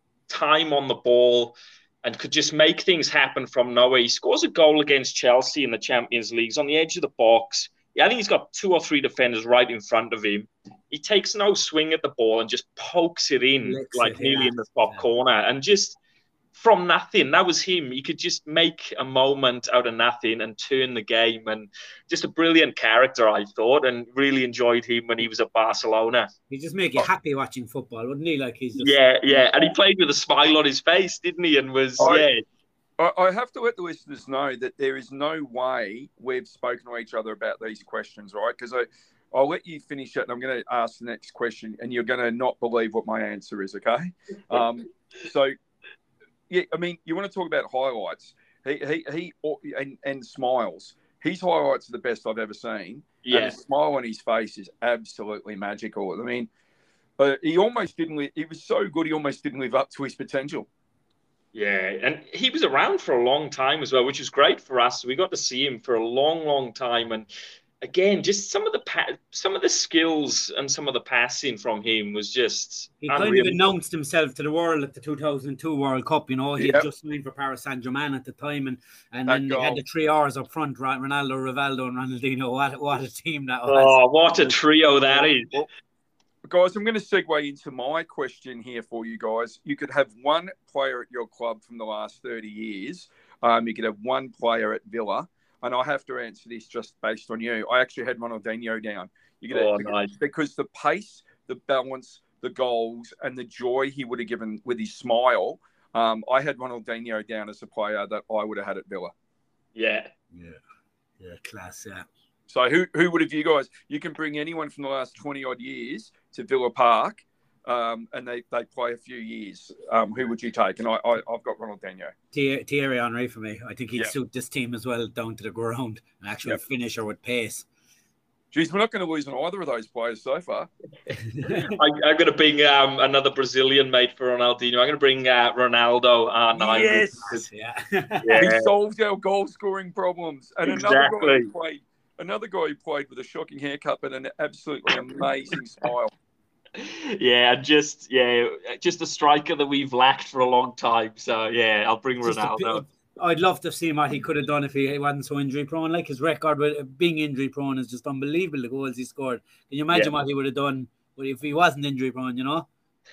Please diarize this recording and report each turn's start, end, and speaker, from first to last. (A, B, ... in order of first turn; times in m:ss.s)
0:00.3-0:16.0 A
0:13.6-0:15.0 B
0:16.5-0:26.3 A
0:26.5-0:29.5 B
0:28.8-0:32.4 A
0:32.0-0:32.3 C
0:33.0-0:45.5 C
0:46.5-0:56.5 C
0:53.2-0:53.6 A
0:57.2-1:00.7 C
1:01.5-1:07.3 A
1:07.8-1:13.6 A
1:13.0-1:25.3 B
1:16.6-1:16.9 C
1:19.3-1:19.8 C
1:23.7-1:25.6 A
1:26.4-1:49.1 C
1:39.5-1:40.1 A
1:49.7-1:50.1 A
1:50.3-1:50.6 B
1:51.2-1:52.0 B
1:52.5-2:02.1 C
2:02.3-2:07.6 B
2:08.5-2:10.7 C
2:11.1-2:11.8 B
2:11.5-2:17.4 A
2:16.5-2:18.4 B
2:16.7-2:17.3 C
2:18.2-2:18.7 A
2:18.4-2:26.1 C
2:20.6-2:21.5 A
2:24.9-2:25.2 A
2:26.8-2:32.8 A
2:32.2-2:42.7 B